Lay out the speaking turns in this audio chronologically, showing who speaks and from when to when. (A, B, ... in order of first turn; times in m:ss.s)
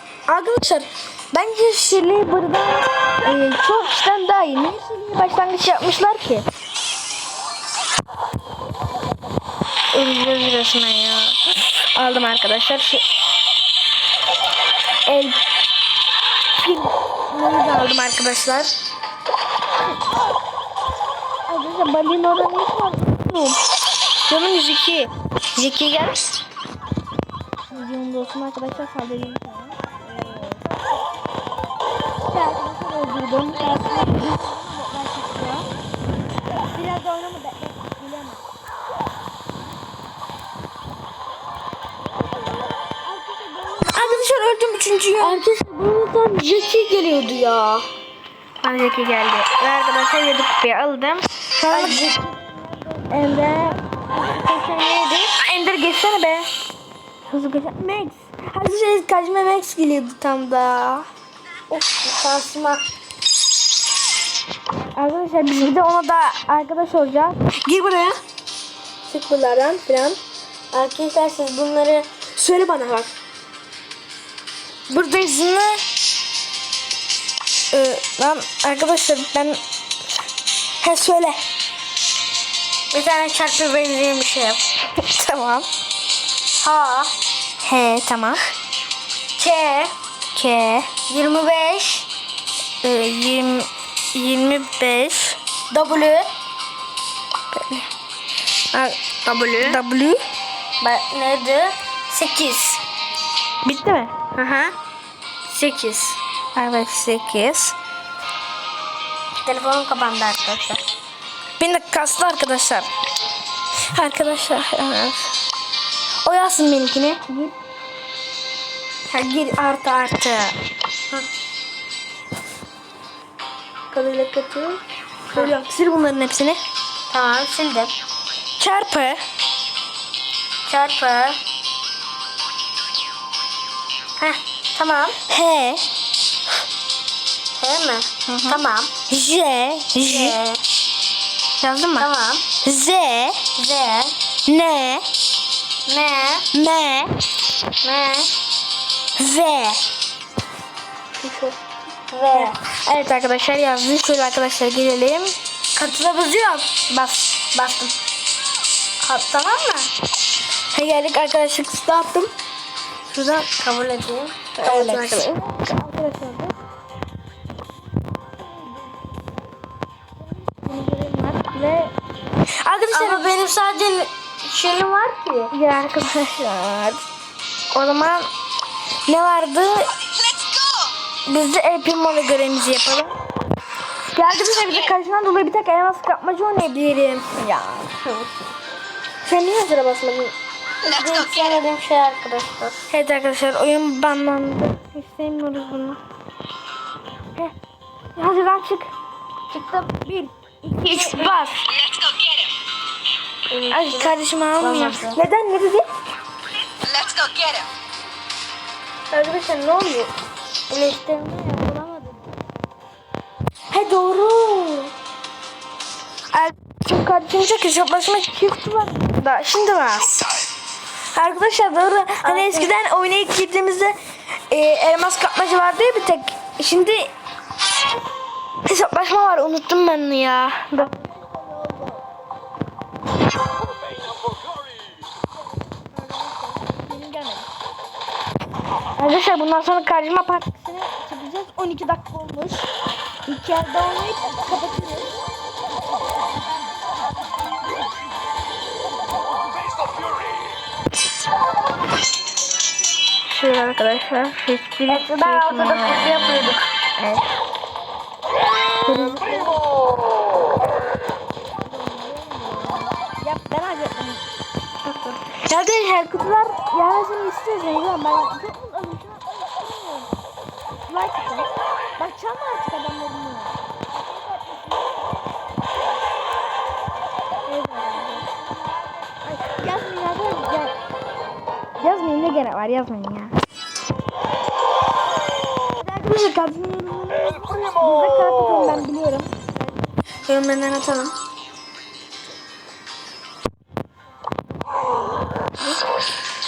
0:00.3-0:06.4 A
0:09.9-0:11.4 A
0:11.9-0:13.0 A
0:15.1-0:15.4 A
0:16.6-0:18.7 A
0:21.5-0:23.6 A
0:24.3-0:26.3 A
0:27.7-0:30.6 A
0:32.2-0:35.7 A
0:36.7-0:38.4 A
0:42.5-0:44.5 B
0:43.8-0:45.4 A
0:45.2-0:47.8 B
0:48.6-0:52.0 A
0:51.7-0:55.3 B
0:53.1-0:53.8 A
0:55.4-0:56.5 A
0:57.3-1:01.0 A
1:01.7-1:02.8 B
1:05.0-1:08.2 A
1:09.1-1:10.2 A
1:10.7-1:12.1 B
1:12.4-1:13.1 A
1:14.9-1:15.8 A
1:17.7-1:19.6 A
1:20.8-1:21.4 A
1:22.9-1:24.6 B
1:24.9-1:25.7 A
1:26.6-1:27.1 B
1:27.6-1:28.4 A
1:29.4-1:29.9 B
1:30.3-1:30.9 A
1:31.1-1:32.1 B
1:32.8-1:35.4 A
1:35.7-1:36.3 B
1:37.5-1:37.9 A
1:38.7-1:39.0 A
1:39.2-1:39.8 B
1:39.6-1:40.2 A
1:40.8-1:42.8 B
1:43.6-1:44.1 A
1:44.3-1:44.7 B
1:45.5-1:46.2 B
1:46.5-1:47.8 A
1:49.4-1:50.8 B
1:51.6-1:52.9 A
1:53.9-1:55.3 A
1:56.2-1:57.5 A
1:59.1-2:00.5 A
2:03.9-2:06.6 A
2:07.1-2:07.9 B
2:08.6-2:09.2 A
2:10.6-2:11.4 B
2:14.2-2:15.2 B
2:15.3-2:15.8 A
2:17.6-2:18.9 B
2:18.3-2:20.4 A
2:20.0-2:20.6 B
2:21.6-2:22.1 A
2:22.0-2:22.4 B
2:22.6-2:23.4 A
2:23.6-2:24.1 B
2:24.4-2:25.0 A
2:25.9-2:26.4 B
2:26.5-2:27.1 A
2:27.8-2:28.3 B
2:29.2-2:29.8 A
2:31.2-2:31.6 A
2:32.1-2:32.6 B
2:32.3-2:35.3 A
2:35.8-2:36.8 B
2:36.9-2:37.6 A
2:37.6-2:37.9 B
2:39.0-2:39.9 B
2:40.7-2:42.3 A
2:43.1-2:43.5 A
2:43.6-2:45.2 B
2:44.6-2:46.5 A
2:50.2-2:51.9 A
2:52.6-2:53.2 A
2:52.9-2:55.5 B
2:55.5-2:57.0 A
2:57.7-2:58.3 A
2:59.1-2:59.9 A
3:01.3-3:03.1 A
3:04.1-3:07.9 A
3:09.2-3:10.3 A
3:10.8-3:12.8 B
3:12.9-3:16.0 A
3:18.2-3:18.9 A
3:19.5-3:20.3 B
3:20.6-3:21.6 A
3:20.8-3:21.4 B
3:23.5-3:25.2 B
3:23.7-3:25.8 A
3:29.1-3:30.1 B
3:29.5-3:30.0 A
3:30.7-3:32.4 B
3:33.7-3:34.9 A
3:36.3-3:40.2 A
3:41.1-3:44.0 A
3:42.2-3:42.7 B
3:44.5-3:47.1 A
3:48.6-3:50.9 A
3:50.8-3:52.0 B
3:56.0-3:56.5 B
3:56.7-3:57.4 A
3:59.0-4:02.7 A
4:03.3-4:05.1 A
4:13.3-4:17.3 A
4:14.9-4:16.6 B
4:18.8-4:19.6 A
4:21.6-4:24.2 A
4:25.0-4:30.1 A
4:30.9-4:33.6 A
4:33.9-4:35.3 B
4:37.5-4:38.3 A
4:39.2-4:40.7 A
4:41.8-4:43.3 A
4:45.8-4:49.4 A
4:50.2-4:51.1 A